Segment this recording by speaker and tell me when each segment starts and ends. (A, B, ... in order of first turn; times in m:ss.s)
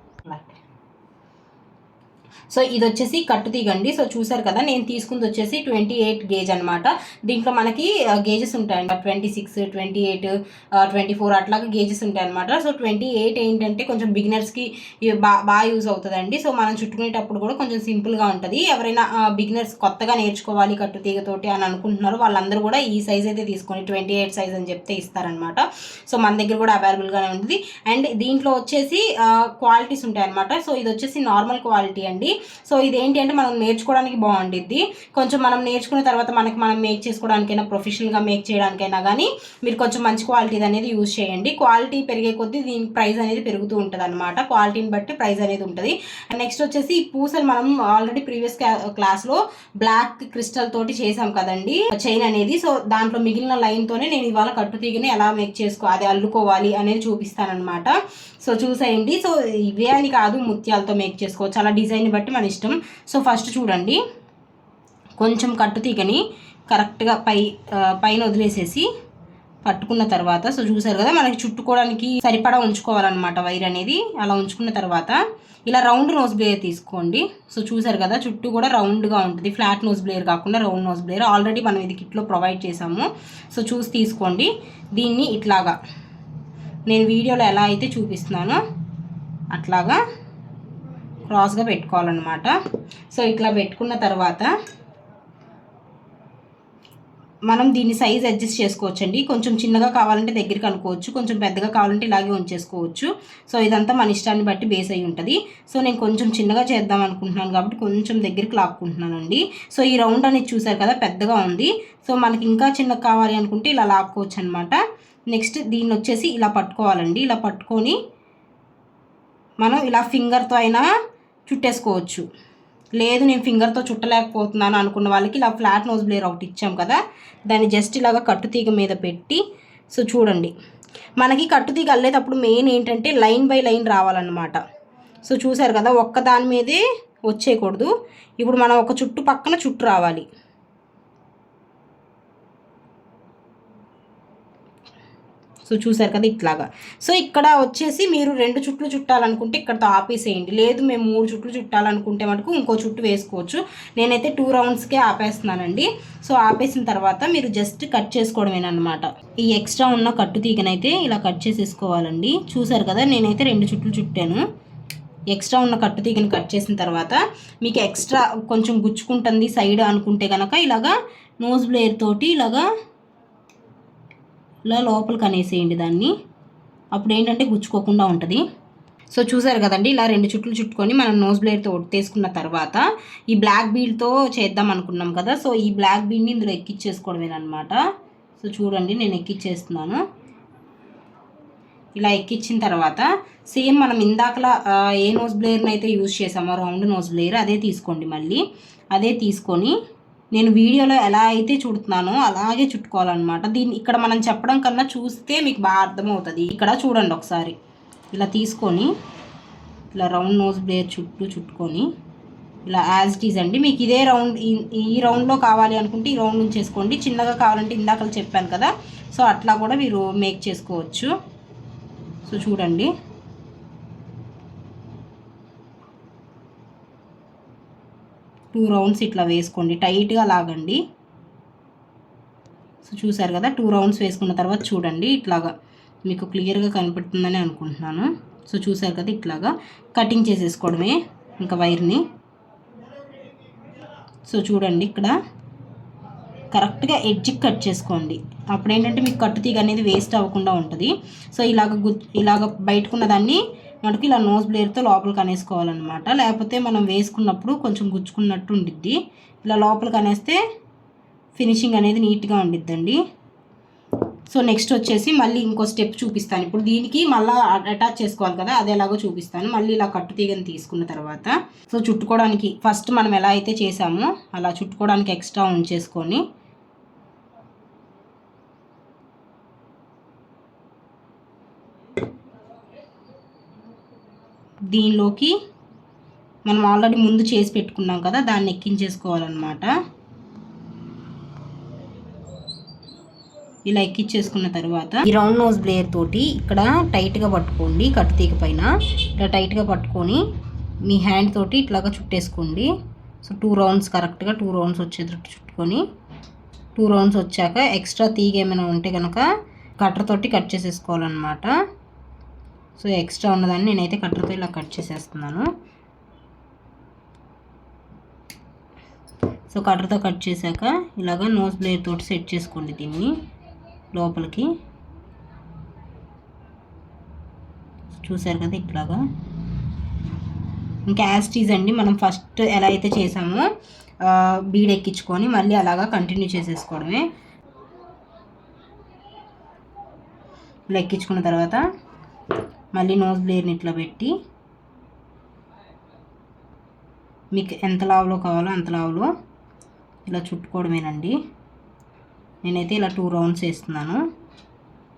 0:00.2-0:00.6 A
0:02.5-1:04.0 A
1:05.2-1:08.8 A
1:09.6-1:25.8 A
1:26.9-1:28.6 A
1:29.5-1:30.0 A
1:31.3-1:32.5 A
1:33.1-1:34.5 A
1:37.5-1:54.8 A
1:55.3-1:58.0 A
1:59.6-2:00.9 A
2:01.5-2:02.2 A
2:03.0-2:09.4 A
2:09.9-2:10.5 A
2:11.2-2:14.6 A
2:15.2-2:20.2 A
2:25.6-2:44.4 A
2:45.3-2:52.6 A
2:54.7-2:56.1 A
2:56.9-2:58.4 A
2:59.1-3:07.8 A
3:08.4-3:10.0 A
3:12.0-3:19.7 A
3:20.3-3:27.5 A
3:28.1-3:28.9 A
3:29.9-3:31.9 A
3:32.7-3:41.1 A
3:42.2-3:42.9 A
3:48.5-3:50.8 A
3:52.8-3:55.5 A
3:56.0-4:02.0 A
4:04.3-4:05.1 A
4:06.5-4:20.4 A
4:21.4-4:23.0 A
4:24.3-4:36.2 A
4:44.7-4:45.3 A
4:46.4-4:49.7 A
4:53.6-5:00.2 A
5:00.8-5:02.7 A
5:03.2-5:05.8 A
5:06.8-5:09.3 A
5:09.8-5:11.5 A
5:12.8-5:15.5 A
5:19.5-5:23.1 A
5:23.9-5:24.5 A
5:28.0-5:29.0 A
5:30.9-5:33.5 A
5:34.0-5:37.1 A
5:40.7-5:41.6 A
5:42.7-5:44.1 A
5:47.3-5:49.1 A
5:50.1-5:51.2 A
5:52.4-5:54.0 A